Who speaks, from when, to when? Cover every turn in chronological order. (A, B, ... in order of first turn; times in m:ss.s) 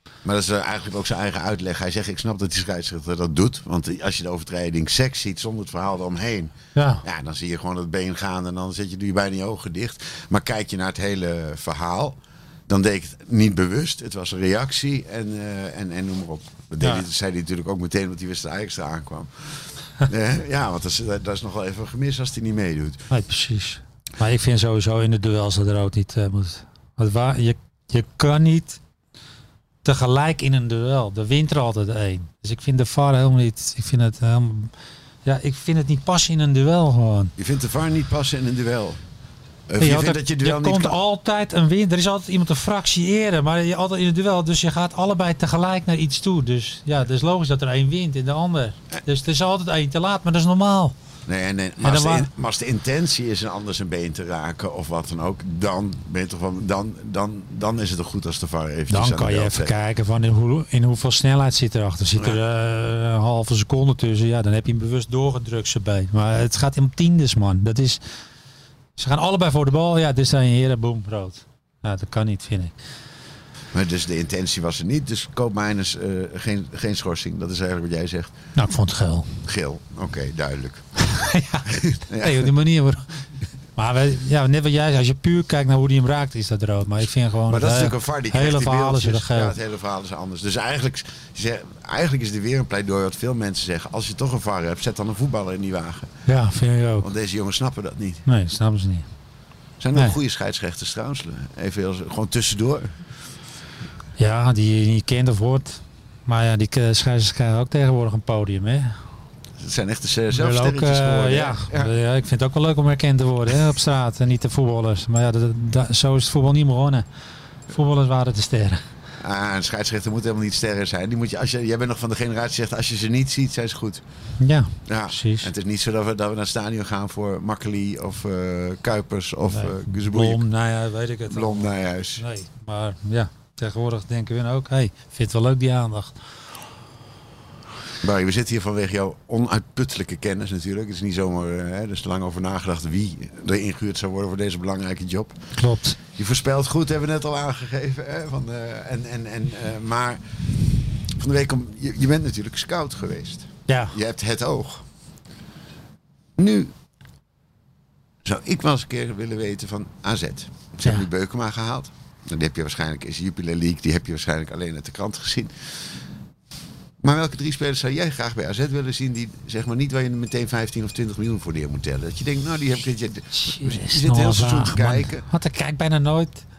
0:00.2-0:23.0 A
0:06.7-0:07.0 B
0:23.1-0:28.8 B
0:29.8-0:34.7 B
0:35.2-0:37.3 B
0:37.4-0:39.0 A
0:39.7-0:41.0 A
0:39.8-0:50.9 B
0:51.3-0:59.7 A
0:51.8-0:52.3 B
0:58.9-1:08.0 B
1:09.0-1:12.7 B
1:13.7-1:18.3 A
1:18.6-1:19.4 B
1:19.4-1:20.8 A
1:21.0-1:23.1 B
1:21.6-1:22.5 A
1:23.8-1:29.6 B
1:27.5-1:36.1 A
1:36.3-1:37.1 B
1:37.0-1:38.2 A
1:38.2-1:39.0 B
1:39.8-1:42.9 A
1:44.2-1:49.0 B
1:49.6-1:51.9 A
1:50.3-1:57.0 B
1:57.7-1:58.8 B
1:59.2-2:04.0 A
2:04.4-2:05.5 B
2:04.8-2:10.4 A
2:09.5-2:16.2 B
2:11.3-2:12.2 A
2:18.0-2:25.4 A
2:25.6-2:26.0 B
2:26.1-2:30.2 A
2:31.2-2:34.8 A
2:33.7-2:34.0 B
2:36.4-2:36.7 A
2:38.2-2:45.5 A
2:47.0-2:55.2 A
2:53.3-2:56.4 B